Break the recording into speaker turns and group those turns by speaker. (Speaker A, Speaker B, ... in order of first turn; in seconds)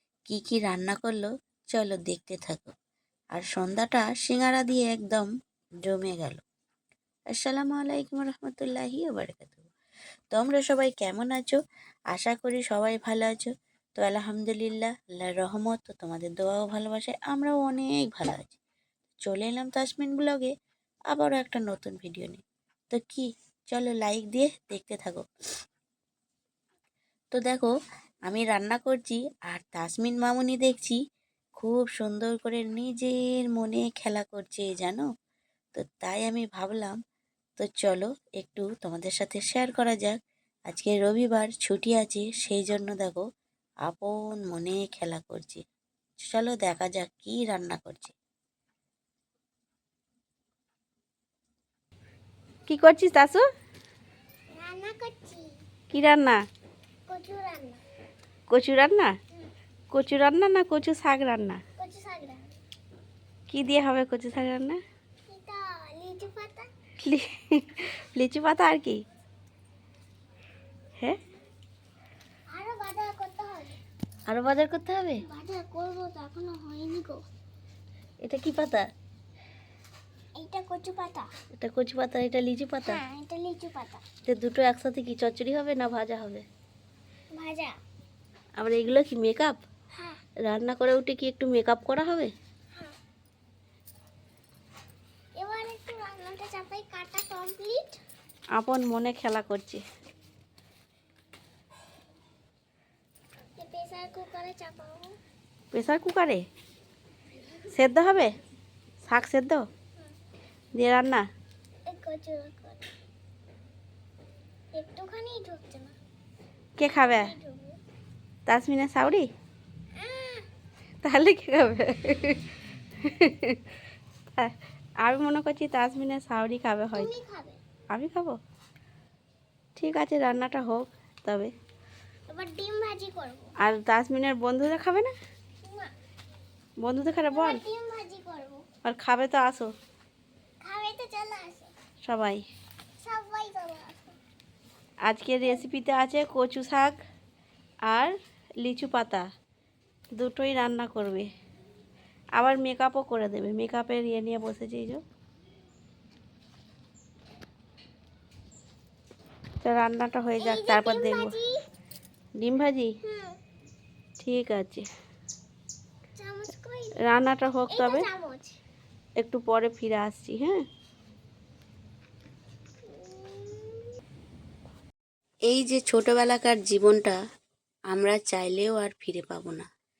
Speaker A: 0.3-2.7, 3.3-5.3, 5.8-6.4, 7.3-9.7, 10.3-11.6, 12.1-18.6, 19.2-20.5, 21.1-25.2, 27.3-27.7, 28.3-31.0, 31.6-35.0, 35.7-37.0, 37.6-43.2, 43.8-45.6, 46.3-48.1, 175.5-177.2, 177.9-179.7
Speaker B: 52.7-53.4, 55.9-56.4, 58.5-59.1, 59.9-61.6, 63.5-64.8, 67.0-69.0, 74.3-75.2, 78.2-78.9, 81.6-83.0, 84.2-86.4, 88.6-89.6, 90.4-92.3, 98.5-99.8, 105.7-106.4, 107.7-108.3, 109.0-109.6, 110.7-111.2, 116.8-117.3, 118.5-119.3, 121.0-122.4, 123.0-123.6, 124.4-127.1, 127.9-128.4, 129.8-131.5, 133.6-135.1, 136.8-137.6, 138.8-139.7, 142.0-142.4, 145.0-146.9, 147.8-149.3, 150.2-151.3, 152.3-155.0, 159.6-161.3, 162.4-162.9, 164.2-164.8, 167.0-168.1, 169.2-170.6
Speaker C: 54.5-55.5, 57.1-57.8, 61.8-62.5, 65.3-66.7, 72.5-73.8, 75.2-77.2, 80.4-81.3, 82.8-84.0, 87.3-87.7, 95.4-98.0, 103.6-105.1, 111.9-112.8, 114.7-115.9, 116.9-117.8, 120.0-120.5, 126.9-127.6, 132.3-133.5, 135.6-135.9, 137.3-138.6, 140.6-141.7, 143.0-144.1, 160.4-161.6, 163.0-163.4, 166.2-167.0, 167.7-168.6, 172.8-173.9